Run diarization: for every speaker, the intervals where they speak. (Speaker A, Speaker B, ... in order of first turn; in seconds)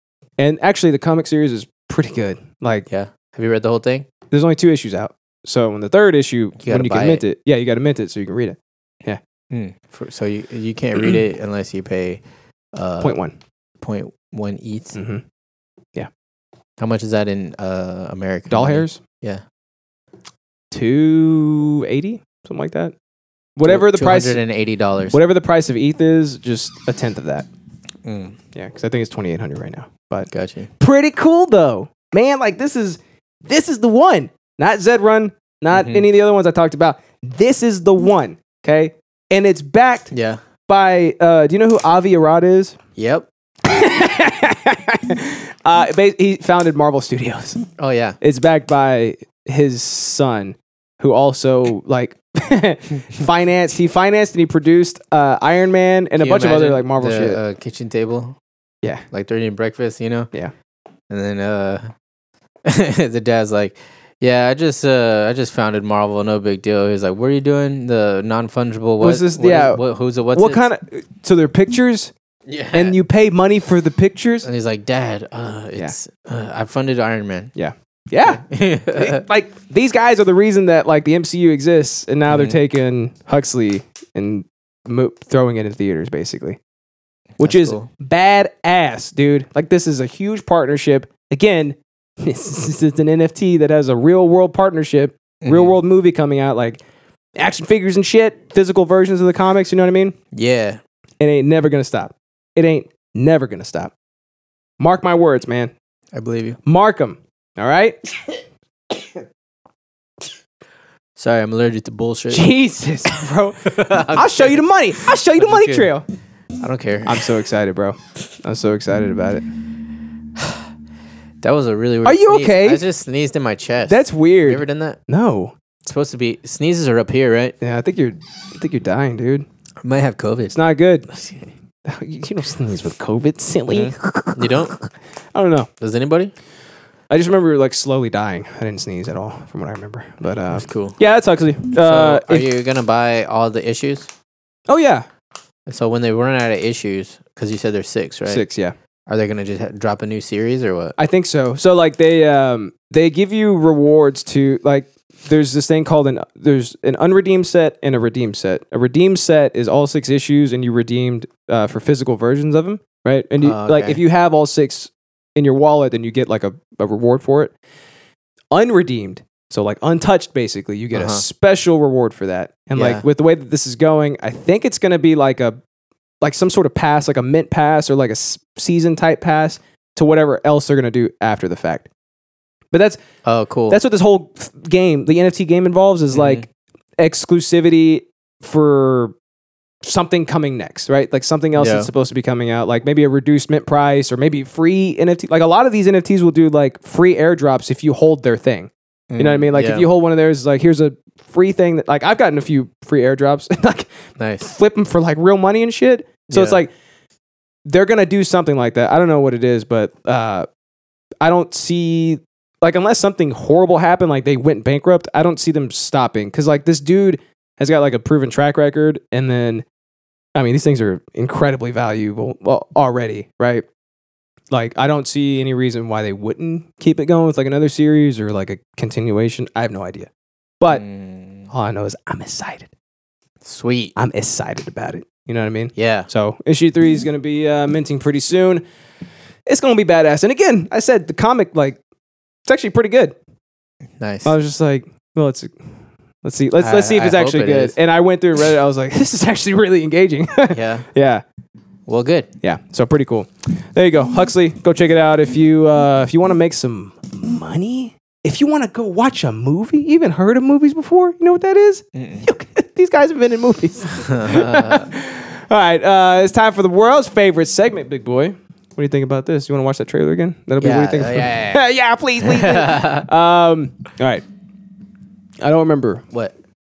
Speaker A: 0.4-2.9, 4.3-9.2, 13.0-13.3, 14.9-15.2, 18.5-19.0, 20.7-22.9, 23.6-24.4, 25.1-27.5, 28.5-30.3, 30.8-40.1, 40.7-42.8, 43.6-47.6, 48.2-57.4, 69.0-69.8, 70.3-72.1, 72.7-74.5, 77.5-86.6, 87.4-96.8, 97.4-100.2, 101.2-103.9, 104.8-105.7, 106.7-108.0, 112.3-116.0, 117.0-119.5, 122.0-122.8, 123.9-125.5, 127.6-129.5, 130.5-131.1, 131.8-134.8, 135.3-135.7, 137.1-142.5, 144.7-145.1, 148.3-148.8, 151.0-167.5, 168.5-175.6, 176.2-181.9, 182.7-183.0, 183.7-186.5, 187.0-189.1, 189.8-203.9, 204.4-206.7, 207.7-210.5, 211.2-219.7, 220.3-223.7, 224.5-230.1, 231.5-232.7, 234.0-238.6, 239.5-241.8, 242.5-243.2, 244.2-245.5, 246.2-251.2, 252.4-274.2, 275.4-276.1
Speaker B: 2.9-4.1, 6.6-7.2, 9.5-12.2, 12.7-13.2, 13.8-15.0, 16.8-19.4, 23.7-25.2, 28.1-28.4, 30.3-30.7, 35.7-36.0, 40.1-40.4, 43.0-43.3, 47.8-48.2, 56.2-58.4, 59.1-60.3, 61.1-61.9, 62.6-70.7, 72.5-73.0, 74.4-77.5, 78.2-79.2, 82.3-82.6, 87.4-87.9, 95.4-95.8, 100.3-100.8, 106.1-106.6, 111.2-112.5, 113.7-114.6, 115.3-115.9, 116.6-117.2, 121.4-125.0, 125.8-127.6, 129.8-130.6, 131.1-131.4, 133.7-134.8, 135.8-136.3, 140.5-141.0, 141.7-144.1, 145.7-148.4, 149.1-150.9, 163.4-164.0, 170.9-171.2, 172.7-173.1, 183.2-183.8, 186.1-186.4, 191.6-191.9, 199.1-199.9, 204.2-204.5, 206.3-206.6, 230.7-231.5, 233.4-233.9, 235.8-236.1, 244.0-244.3, 246.6-247.8, 250.5-250.9, 251.9-252.3, 261.9-262.3, 264.0-264.9, 270.6-271.6, 272.2-273.1